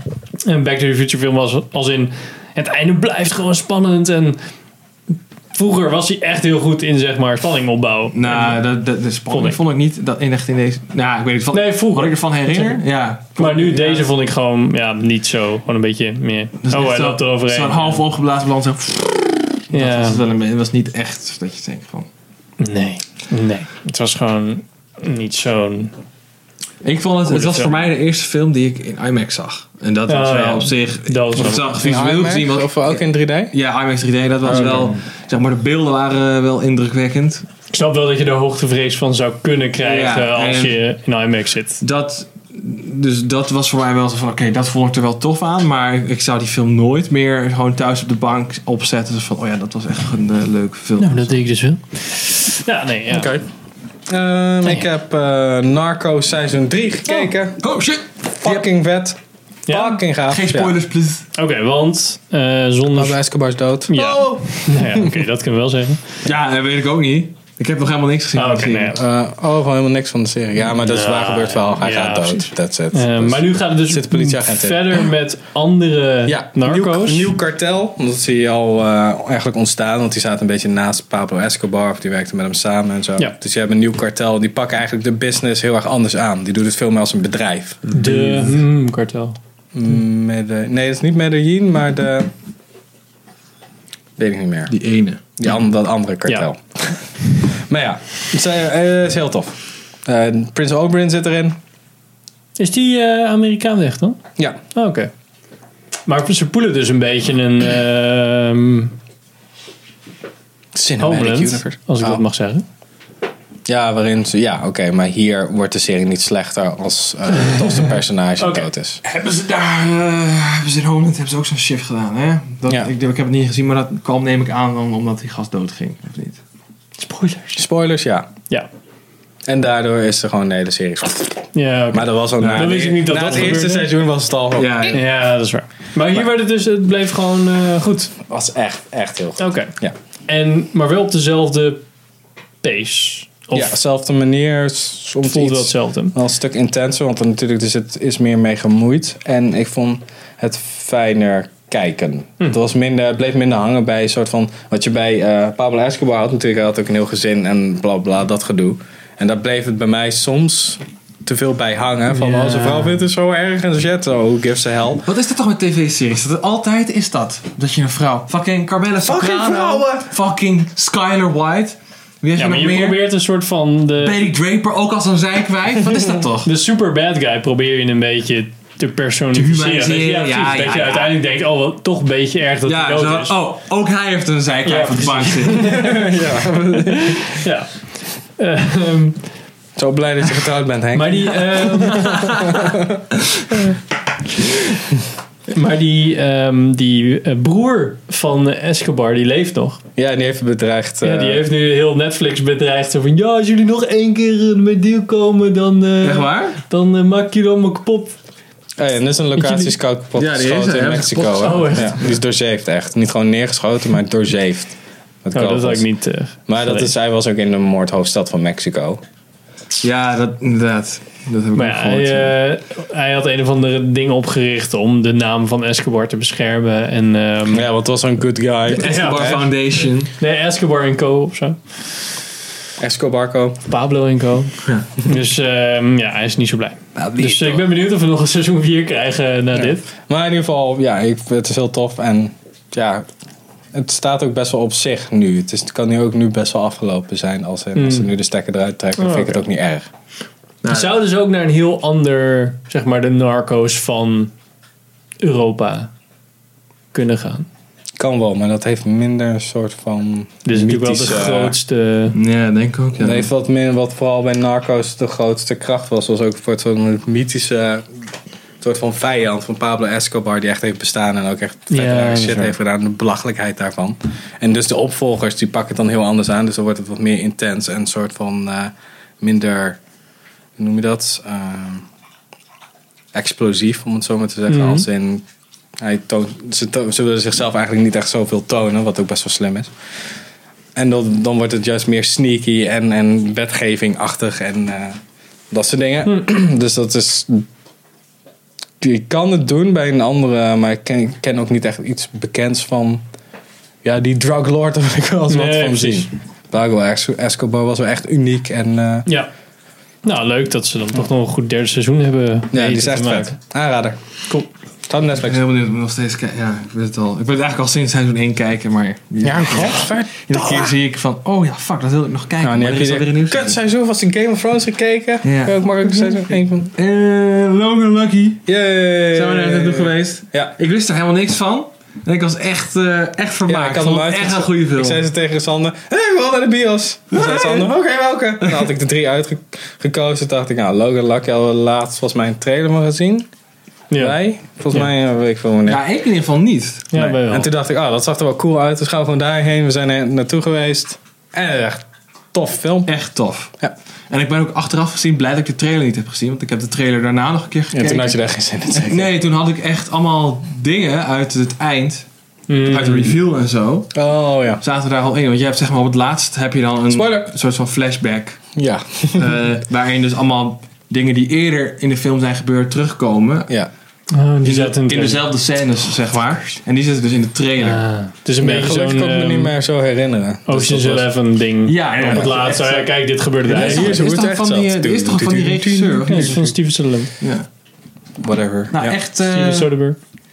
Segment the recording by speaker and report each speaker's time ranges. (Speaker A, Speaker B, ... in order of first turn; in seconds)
Speaker A: 0.4-4.4, 5.5-8.6, 9.3-9.6, 11.5-12.8, 13.4-18.0, 19.7-20.2, 22.6-25.9, 27.3-27.7, 30.1-31.7, 37.7-41.8, 51.0-53.3, 59.7-60.0, 61.4-63.2, 63.9-66.2, 68.3-69.0, 70.8-77.3, 87.9-89.4, 102.6-104.2, 104.8-105.1, 106.1-108.9, 111.0-112.7, 118.4-118.7, 127.0-127.7, 131.5-133.9, 134.9-138.2, 139.4-139.7, 140.3-141.8, 142.6-143.8, 145.2-146.2, 162.1-163.0, 172.4-174.2, 176.4-183.4, 184.7-186.1, 186.7-189.2, 190.9-192.6, 195.5-199.8, 201.0-208.2, 209.4-209.8, 211.4-212.0, 215.3-216.9, 221.6-227.7, 228.8-229.4, 230.2-231.6, 233.7-239.8, 247.8-248.1, 249.0-249.4, 250.7-254.3, 255.2-255.9, 256.9-257.5, 260.4-262.2, 271.7-272.5, 284.5-284.9, 305.3-306.1, 310.0-313.4, 343.9-344.2, 346.9-347.5, 362.5-363.2, 374.1-375.2, 377.6-379.5, 380.5-384.0, 386.1-387.1, 389.2-390.0
Speaker B: 8.1-14.1, 16.6-22.1, 26.8-33.0, 33.5-37.5, 39.8-40.8, 41.8-51.4, 57.1-58.7, 60.3-61.3, 66.2-69.0, 88.0-88.3, 94.7-95.2, 119.0-126.4, 132.4-133.5, 134.6-135.0, 165.1-173.1, 174.0-176.5, 179.3-181.2, 182.7-186.2, 191.9-192.6, 206.0-206.6, 210.2-212.0, 219.8-222.3, 228.8-230.1, 234.6-234.9, 236.9-237.7, 250.6-251.0, 262.1-263.3, 315.2-323.6, 325.2-328.5, 329.1-335.0, 337.1-337.7, 345.7-346.9, 352.9-353.5, 354.1-358.2, 358.7-362.1, 362.6-364.0, 364.6-368.6, 369.1-373.5, 374.4-377.8, 381.7-386.4, 387.2-387.5, 388.7-389.7
Speaker C: 31.6-33.5, 34.5-34.9, 53.1-53.4, 54.1-57.6, 58.4-60.8, 62.9-65.2, 68.9-75.1, 76.3-87.9, 89.8-92.3, 94.2-94.7, 95.4-101.6, 110.8-112.2, 113.7-119.0, 127.6-128.3, 129.5-135.0, 138.2-139.9, 143.5-165.1, 169.0-170.1, 185.6-187.4, 189.8-193.1, 200.0-201.4, 208.8-215.9, 216.5-219.0, 227.5-229.4, 232.8-233.6, 239.6-243.1, 243.7-249.9, 258.0-261.6, 263.0-267.9, 268.6-279.8, 280.6-281.9, 283.1-285.2, 285.8-289.7, 290.8-295.0, 295.5-297.5, 298.8-303.0, 303.8-309.1, 312.5-314.0, 314.9-315.4, 319.2-320.8, 322.4-326.7, 328.5-330.5, 333.5-343.3, 344.0-345.8, 347.0-352.9, 357.7-359.1, 363.9-364.6, 366.9-367.3, 368.6-369.4, 378.4-381.1, 383.5-386.6, 388.2-389.0